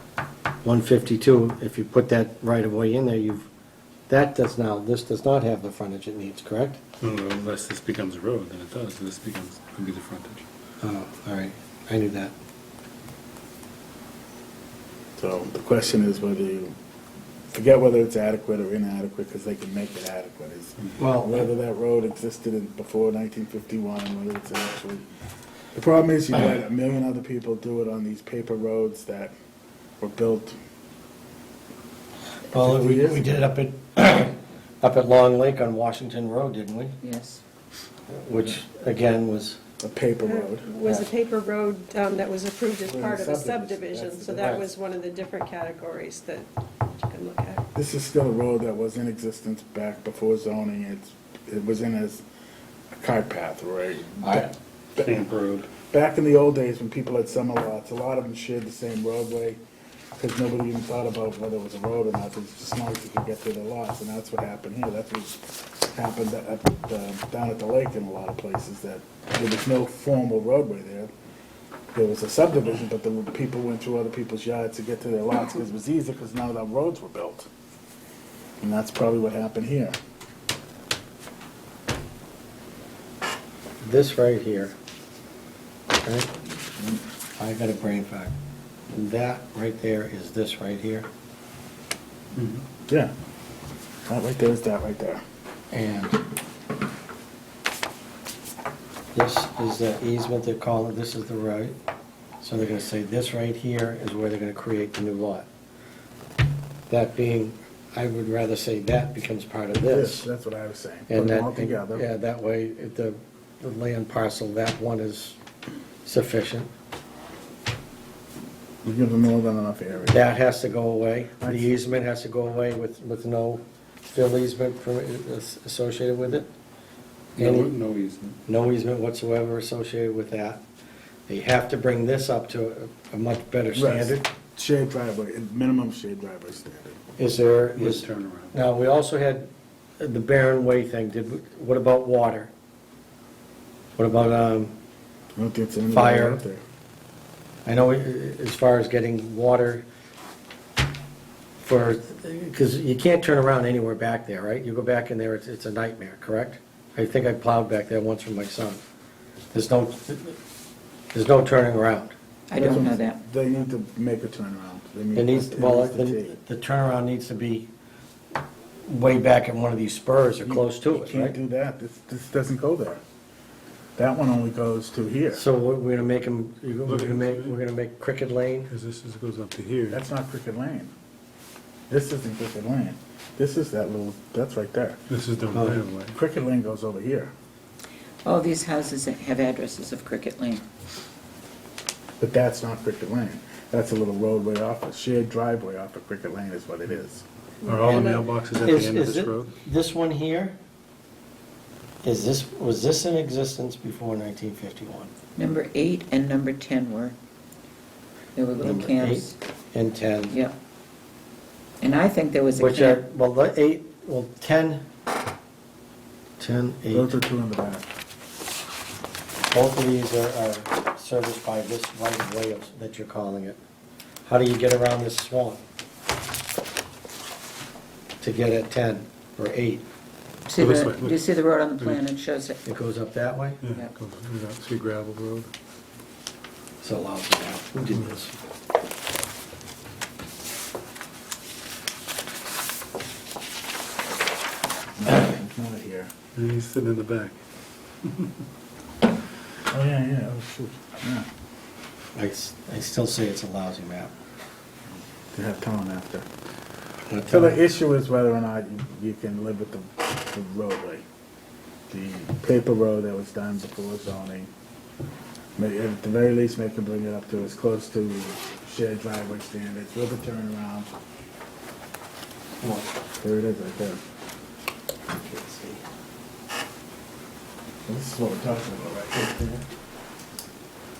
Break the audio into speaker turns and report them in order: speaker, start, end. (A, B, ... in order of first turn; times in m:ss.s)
0:00.6-0:03.5 A
0:04.1-0:06.8 A
0:07.0-0:10.4 B
0:10.8-0:12.3 A
0:15.2-0:16.8 C
0:17.5-0:25.1 C
0:21.0-0:21.5 A
0:25.7-0:29.3 C
0:30.0-0:30.6 C
0:32.5-0:37.0 A
0:32.6-0:33.3 C
0:37.0-0:37.4 D
0:38.1-0:39.6 A
0:39.8-0:40.7 C
0:40.3-0:46.5 E
0:42.9-0:44.7 C
0:47.0-0:47.6 E
0:47.8-0:52.2 C
0:53.0-0:55.2 C
0:55.0-0:55.7 B
0:55.8-0:59.6 C
1:00.2-1:11.1 C
1:11.9-1:17.5 C
1:18.6-1:20.0 C
1:23.8-1:24.8 A
1:26.0-1:26.4 A
1:27.4-1:28.4 A
1:28.9-1:31.1 A
1:32.4-1:32.6 B
1:32.9-1:33.1 C
1:34.1-1:35.2 C
1:35.7-1:36.2 A
1:39.1-1:41.8 A
1:42.4-1:45.5 A
1:46.9-1:50.3 A
1:49.8-1:52.1 C
1:51.1-1:55.4 A
1:56.0-1:56.7 A
1:58.8-2:00.2 C
2:00.1-2:06.5 A
2:01.4-2:01.7 C
2:07.4-2:07.7 A
2:07.4-2:08.4 B
2:08.5-2:10.6 A
2:11.3-2:14.3 A
2:13.8-2:17.0 C
2:17.2-2:22.5 A
2:17.8-2:18.5 B
2:24.0-2:24.8 A
2:25.4-2:26.6 C
2:25.9-2:26.4 A
2:27.6-2:29.8 A
2:31.6-2:38.8 A
2:39.5-2:40.4 A
2:41.1-2:42.1 A
2:42.5-2:43.2 D
2:42.6-2:46.4 C
2:45.2-2:47.7 A
2:48.8-2:51.4 A
2:50.4-2:53.0 C
2:54.0-2:55.4 C
2:55.3-2:58.7 A
2:56.9-2:57.6 B
2:58.7-3:00.0 B
2:59.9-3:00.9 C
3:01.9-3:05.0 C
3:05.1-3:06.2 B
3:05.5-3:05.8 A
3:06.1-3:07.3 C
3:08.2-3:10.6 D
3:12.2-3:17.2 C
3:17.6-3:18.2 E
3:17.6-3:19.5 B
3:18.6-3:20.6 A
3:22.0-3:25.1 A
3:25.4-3:27.2 D
3:28.4-3:29.4 D
3:28.6-3:30.4 A
3:31.8-3:33.0 D
3:32.6-3:34.9 A
3:36.4-3:37.2 A
3:36.9-3:37.9 C
3:39.5-3:43.6 A
3:44.2-3:45.6 A
3:48.2-3:49.8 A
3:50.5-3:52.6 D
3:50.6-3:51.2 B
3:52.6-3:53.6 A
3:53.6-3:55.5 B
3:56.8-3:58.3 A
4:05.0-4:06.1 C
4:06.4-4:07.4 B
4:08.0-4:08.3 B
4:09.7-4:11.3 C
4:12.2-4:14.1 A
4:15.3-4:16.3 C
4:17.1-4:17.6 A
4:17.3-4:21.0 C
4:21.9-4:24.5 C
4:25.6-4:30.9 C
4:32.6-4:32.9 A
4:33.2-4:34.0 C
4:35.1-4:35.8 A
4:37.9-4:39.2 C
4:39.1-4:39.6 A